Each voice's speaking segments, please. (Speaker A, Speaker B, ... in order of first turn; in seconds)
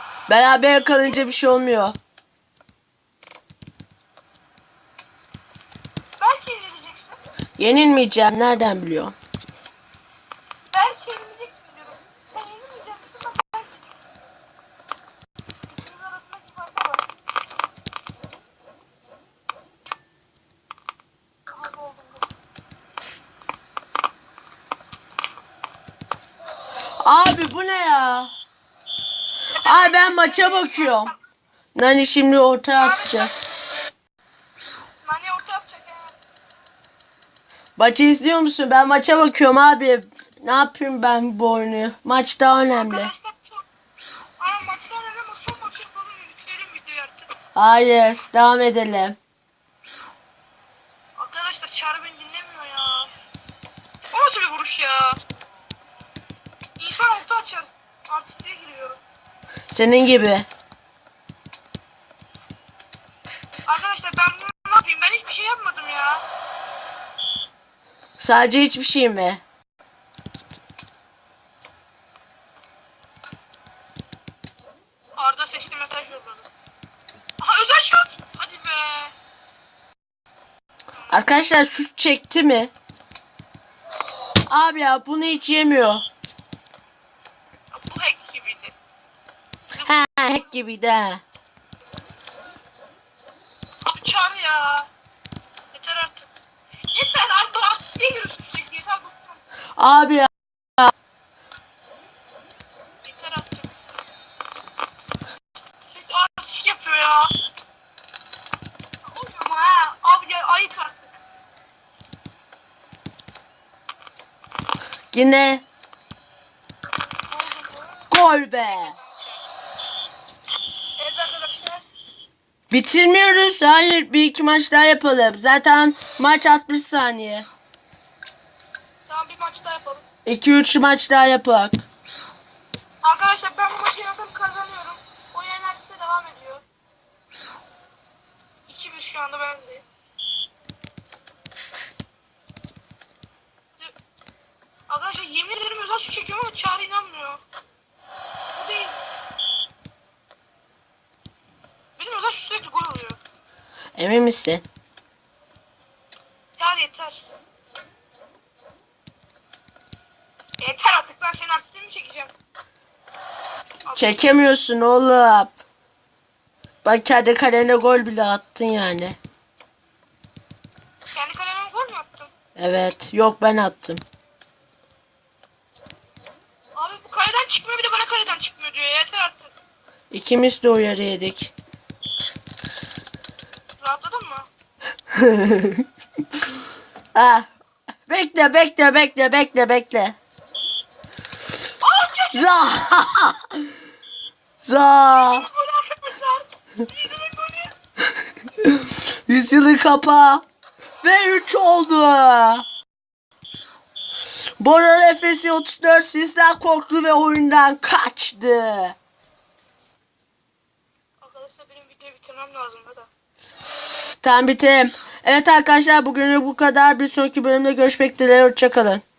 Speaker A: 0.3-1.9, 7.6-9.1, 27.1-28.3, 29.6-31.1, 31.8-33.3, 37.8-43.1, 47.6-49.2, 59.7-60.5, 68.2-69.4, 81.1-82.7, 84.5-86.1, 89.8-91.2, 99.8-100.9, 115.1-115.6, 118.1-119.0, 122.7-127.5, 130.2-131.8, 154.0-154.6, 164.0-165.6, 166.8-169.2, 172.6-174.0, 180.1-181.5, 185.1-185.8, 187.1-187.5, 188.1-190.2, 192.3-193.5, 194.6-195.5, 198.6-200.4, 201.0-202.6, 204.6-208.9, 214.2-219.0
Speaker B: 0.9-1.3, 6.2-7.2, 10.7-14.0, 15.7-17.0, 21.5-22.3, 29.6-31.1, 32.8-33.4, 35.0-36.2, 42.7-43.6, 44.4-47.3, 51.2-53.1, 54.1-55.2, 56.8-59.0, 63.7-66.2, 75.2-76.5, 77.4-79.1, 80.9-81.5, 87.7-88.8, 89.7-90.5, 93.8-94.9, 95.7-96.3, 96.9-99.4, 103.0-103.7, 105.8-107.3, 109.0-111.2, 117.3-119.5, 121.0-121.8, 129.1-130.0, 133.0-136.6, 138.7-139.8, 144.9-147.4, 148.5-149.0, 152.0-153.2, 156.6-157.3, 160.6-162.3, 163.9-164.3, 171.1-172.3, 176.8-179.5, 183.8-184.5, 191.8-192.9, 195.1-197.7, 211.2-213.1